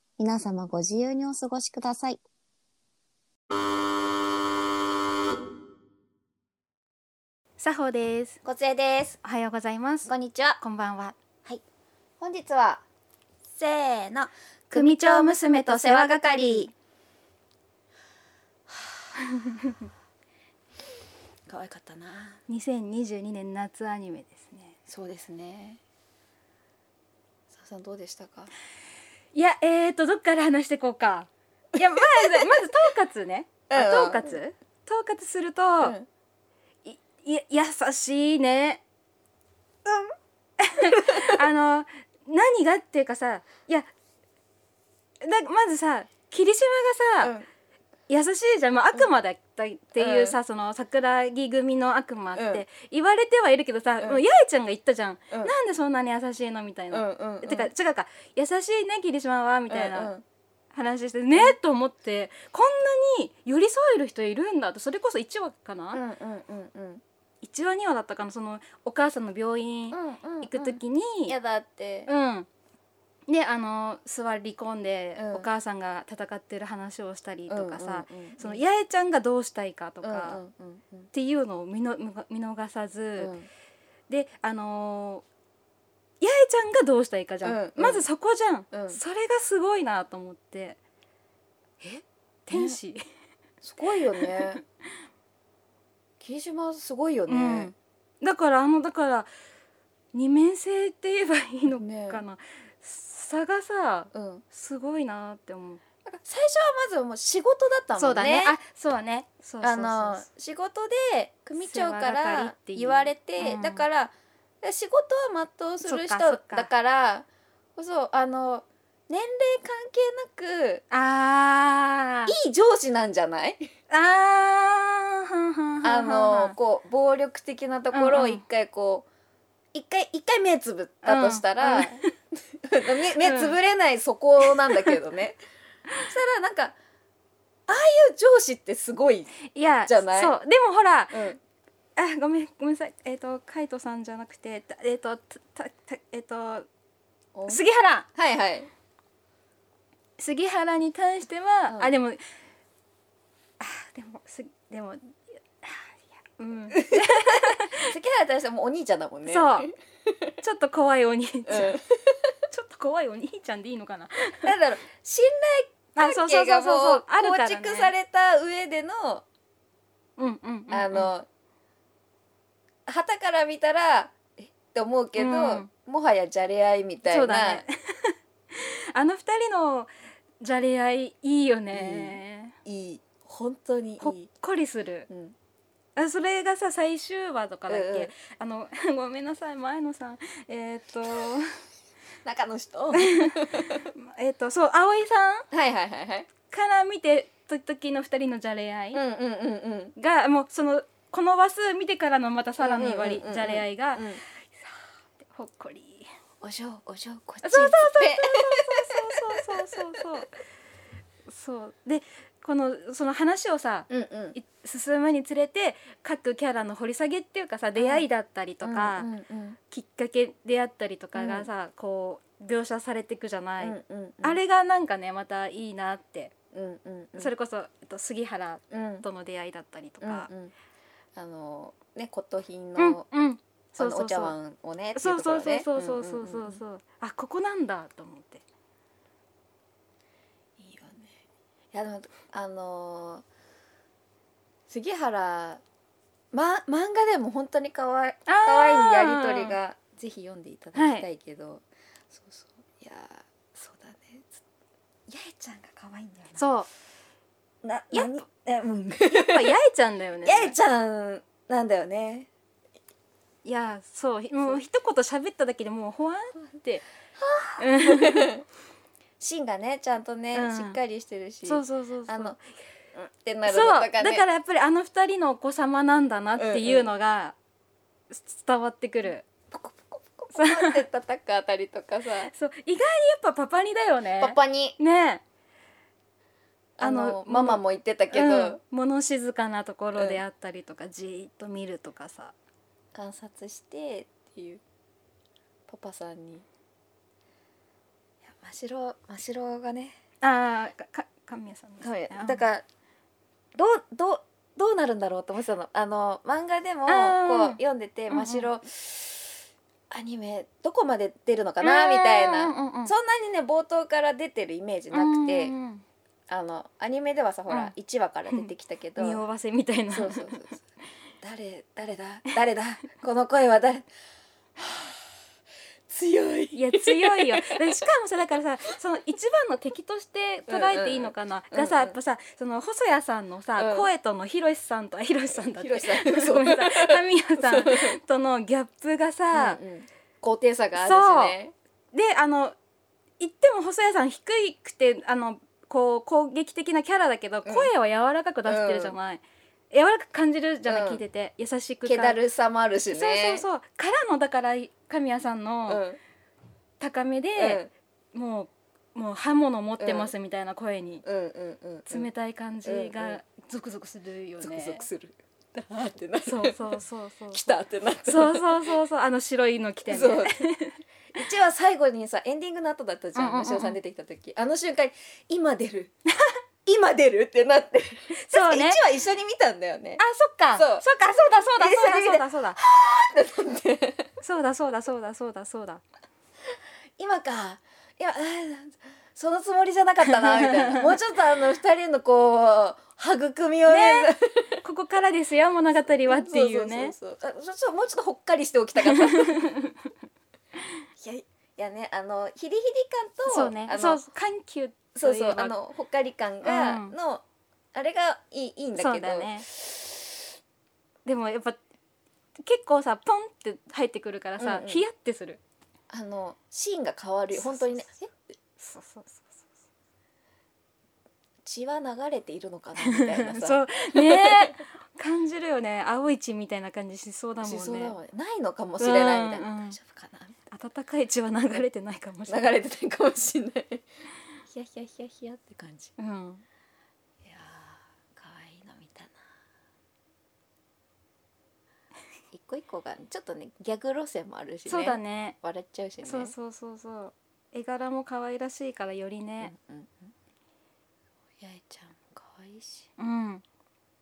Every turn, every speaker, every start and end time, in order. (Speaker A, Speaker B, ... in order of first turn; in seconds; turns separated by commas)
Speaker A: 0.2-2.2, Speaker B: 7.6-8.4, Speaker C: 8.4-9.2, Speaker B: 9.2-11.2, Speaker C: 10.1-10.6, Speaker C: 12.2-12.8, Speaker C: 13.5-16.7, Speaker B: 14.7-16.7, Speaker C: 18.7-19.1, Speaker B: 19.4-19.7, Speaker C: 21.5-22.4, Speaker B: 22.5-24.8, Speaker C: 24.9-25.8, Speaker C: 27.5-28.5, Speaker B: 29.3-36.0, Speaker C: 32.0-32.5, Speaker C: 33.7-34.4, Speaker C: 35.8-36.1, Speaker B: 36.9-38.8, Speaker B: 40.6-43.9, Speaker B: 45.2-47.3, Speaker C: 47.2-47.5, Speaker B: 48.1-60.1, Speaker C: 50.0-50.4, Speaker C: 52.4-52.6, Speaker C: 56.9-57.7, Speaker C: 59.7-60.2, Speaker B: 60.7-66.0, Speaker C: 65.9-67.0, Speaker B: 67.4-71.3, Speaker C: 69.9-72.1, Speaker B: 72.1-72.5, Speaker B: 73.3-80.4, Speaker C: 75.2-75.5, Speaker C: 77.5-78.6, Speaker C: 80.0-81.1, Speaker B: 81.1-83.3, Speaker C: 83.2-83.5, Speaker B: 84.1-85.2, Speaker B: 86.2-90.8, Speaker C: 87.4-88.1, Speaker C: 88.7-89.0, Speaker B: 91.8-93.0, Speaker C: 92.5-92.8, Speaker C: 93.6-94.6, Speaker B: 94.2-94.6, Speaker C: 96.2-97.7, Speaker B: 97.3-99.3, Speaker B: 100.1-105.8, Speaker C: 101.7-102.2, Speaker C: 104.1-104.4, Speaker C: 106.0-108.6, Speaker B: 108.0-110.2, Speaker C: 109.6-120.8, Speaker B: 111.6-113.8, Speaker B: 115.8-116.7, Speaker B: 120.9-122.3, Speaker C: 122.3-123.7, Speaker B: 123.9-126.5, Speaker C: 125.8-129.1, Speaker B: 127.9-128.4, Speaker C: 129.7-132.0, Speaker B: 131.0-132.1, Speaker C: 132.6-135.4, Speaker B: 133.2-133.6, Speaker B: 134.7-134.9, Speaker C: 136.0-136.8, Speaker C: 137.7-140.4, Speaker B: 139.5-141.3, Speaker C: 141.1-141.4, Speaker B: 142.0-146.7, Speaker C: 147.3-147.6, Speaker B: 147.5-148.1, Speaker C: 148.2-148.7, Speaker B: 150.2-152.2, Speaker B: 153.6-157.9, Speaker C: 156.8-160.3, Speaker B: 159.3-159.7, Speaker B: 160.4-161.8, Speaker C: 161.5-162.3, Speaker B: 162.5-164.5, Speaker C: 164.4-169.2, Speaker B: 166.0-167.9, Speaker B: 170.2-171.1, Speaker C: 170.7-171.3, Speaker C: 172.9-177.6, Speaker B: 175.2-175.7, Speaker B: 177.1-182.6, Speaker C: 181.7-184.3, Speaker B: 184.0-185.1, Speaker C: 185.1-185.4, Speaker B: 186.0-191.6, Speaker C: 187.7-188.1, Speaker C: 192.2-193.9, Speaker B: 193.0-195.5, Speaker C: 195.5-196.3, Speaker B: 196.5-199.0, Speaker C: 198.9-200.0, Speaker B: 200.0-206.1, Speaker C: 202.6-204.2, Speaker C: 206.4-209.2, Speaker B: 207.4-210.4, Speaker B: 211.3-219.1, Speaker C: 213.9-214.4, Speaker C: 217.8-218.1, Speaker C: 218.6-219.6, Speaker B: 219.7-226.3, Speaker C: 221.2-221.5, Speaker C: 223.6-224.4, Speaker C: 226.5-227.3, Speaker B: 227.2-230.3, Speaker C: 228.7-229.1, Speaker C: 230.0-230.5, Speaker C: 231.2-233.1, Speaker B: 232.8-234.3, Speaker C: 233.8-236.6, Speaker B: 234.9-238.4, Speaker C: 240.6-241.2, Speaker C: 241.7-243.2, Speaker C: 244.7-245.6, Speaker C: 246.3-254.4, Speaker B: 248.3-249.6, Speaker B: 250.8-251.1, Speaker C: 255.1-256.4, Speaker B: 256.4-256.7, Speaker C: 257.6-259.5, Speaker B: 257.9-258.2, Speaker B: 259.1-260.5, Speaker C: 260.2-262.3, Speaker B: 263.4-266.9, Speaker C: 267.2-268.4, Speaker B: 267.6-268.3, Speaker C: 269.2-272.4, Speaker B: 270.3-270.8, Speaker B: 271.4-272.4, Speaker C: 272.9-274.3, Speaker B: 273.5-277.4, Speaker C: 276.4-276.9, Speaker B: 278.1-279.3, Speaker C: 279.5-282.3, Speaker B: 280.3-280.8, Speaker B: 282.3-285.2, Speaker C: 284.2-284.8, Speaker C: 286.8-288.6, Speaker B: 286.8-292.3, Speaker C: 289.9-290.2, Speaker C: 292.9-294.6, Speaker C: 295.7-296.5, Speaker C: 298.4-300.0, Speaker B: 300.2-302.4, Speaker C: 301.8-302.6, Speaker C: 303.6-309.4, Speaker B: 306.9-307.6, Speaker B: 308.1-308.5, Speaker C: 309.9-315.5, Speaker B: 311.6-312.9, Speaker B: 314.9-315.8, Speaker C: 316.3-319.2, Speaker B: 318.3-320.5, Speaker C: 319.9-320.6, Speaker C: 321.2-323.9, Speaker C: 324.6-325.1, Speaker C: 325.9-327.8, Speaker B: 326.5-339.6, Speaker C: 330.5-332.0, Speaker C: 333.6-333.9, Speaker C: 335.6-338.0, Speaker C: 339.3-341.5, Speaker B: 340.8-341.4, Speaker B: 341.9-342.6, Speaker B: 343.2-352.2, Speaker C: 347.5-347.7, Speaker C: 348.4-349.0, Speaker C: 350.6-351.0, Speaker C: 351.9-353.5, Speaker B: 352.9-355.9, Speaker C: 355.7-356.0, Speaker B: 356.8-357.6, Speaker C: 357.4-357.7, Speaker B: 358.1-361.0, Speaker C: 359.8-360.1, Speaker C: 361.0-362.1, Speaker B: 361.9-364.9, Speaker C: 362.6-363.2, Speaker C: 364.4-366.6, Speaker B: 366.2-367.5, Speaker C: 367.3-368.7, Speaker B: 368.0-370.8, Speaker C: 369.9-370.3, Speaker C: 371.1-375.9, Speaker B: 373.2-373.8, Speaker C: 376.6-380.0, Speaker B: 378.1-378.8, Speaker B: 380.0-382.6, Speaker C: 380.5-380.9, Speaker C: 381.5-384.1, Speaker B: 384.2-385.8, Speaker C: 387.0-394.6, Speaker B: 390.2-390.9, Speaker B: 393.7-396.9, Speaker C: 396.1-399.4, Speaker B: 398.9-399.7, Speaker C: 401.0-404.0, Speaker B: 403.3-405.6, Speaker C: 404.9-407.2, Speaker B: 406.4-406.9, Speaker C: 407.7-409.9, Speaker B: 408.8-409.5, Speaker B: 411.1-411.6, Speaker B: 412.4-415.4, Speaker C: 414.4-414.8, Speaker C: 415.9-418.2, Speaker B: 418.6-419.4, Speaker C: 421.4-424.6, Speaker B: 422.8-427.9, Speaker C: 427.4-430.4, Speaker B: 428.8-429.8, Speaker B: 430.5-432.5, Speaker C: 432.3-433.9, Speaker C: 434.5-435.9, Speaker B: 436.0-436.4, Speaker C: 437.2-439.2, Speaker C: 442.3-446.3, Speaker B: 444.7-445.4, Speaker B: 446.0-449.5, Speaker C: 449.4-450.1, Speaker C: 451.4-452.9, Speaker B: 453.0-453.4